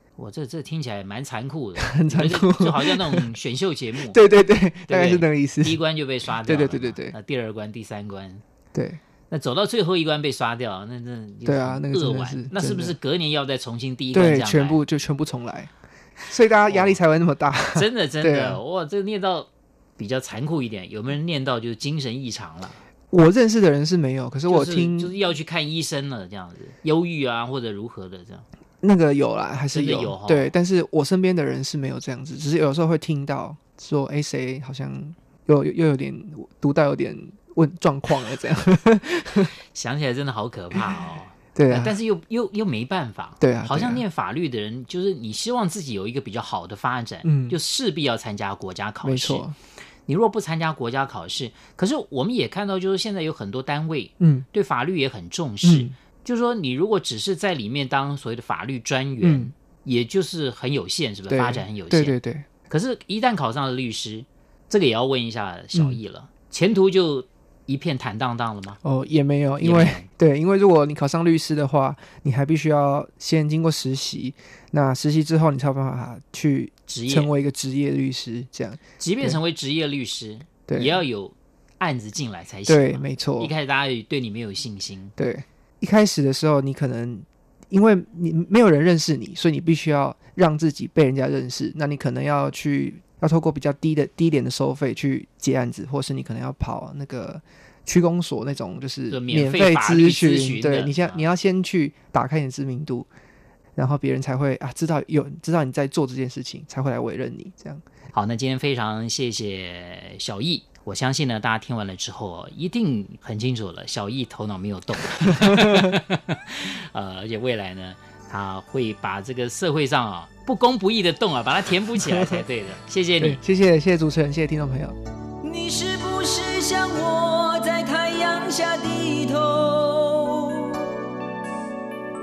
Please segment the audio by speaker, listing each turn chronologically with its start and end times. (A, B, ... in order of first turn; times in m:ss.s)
0:00.2-0:04.2 A
0:01.8-0:03.3 B
0:04.1-0:05.8 B
0:04.9-0:08.4 A
0:06.4-0:07.2 B
0:08.7-0:09.0 B
0:09.3-0:14.8 A
0:11.4-0:13.0 B
0:14.1-0:15.7 B
0:16.3-0:18.6 B
0:16.7-0:17.0 A
0:17.7-0:22.8 A
0:23.1-0:25.2 B
0:24.5-0:28.5 A
0:28.8-0:39.5 B
0:29.7-0:30.5 A
0:39.7-0:49.4 A
0:41.6-0:42.0 B
0:43.4-0:44.0 B
0:47.2-0:47.6 B
0:49.0-0:49.5 B
0:50.1-1:02.2 A
0:54.2-0:54.5 B
0:55.6-0:56.0 B
0:59.2-0:59.5 B
1:01.3-1:02.5 B
1:02.7-1:08.8 A
1:05.7-1:06.0 B
1:08.8-1:19.4 B
1:09.6-1:10.1 A
1:16.9-1:17.3 A
1:19.0-1:25.1 A
1:20.7-1:21.0 B
1:22.7-1:23.5 B
1:25.2-1:43.1 B
1:39.1-1:41.3 A
1:43.8-1:47.8 B
1:48.1-2:03.4 A
1:55.2-1:56.0 B
2:02.0-2:02.4 B
2:03.2-2:05.0 B
2:05.4-2:10.8 C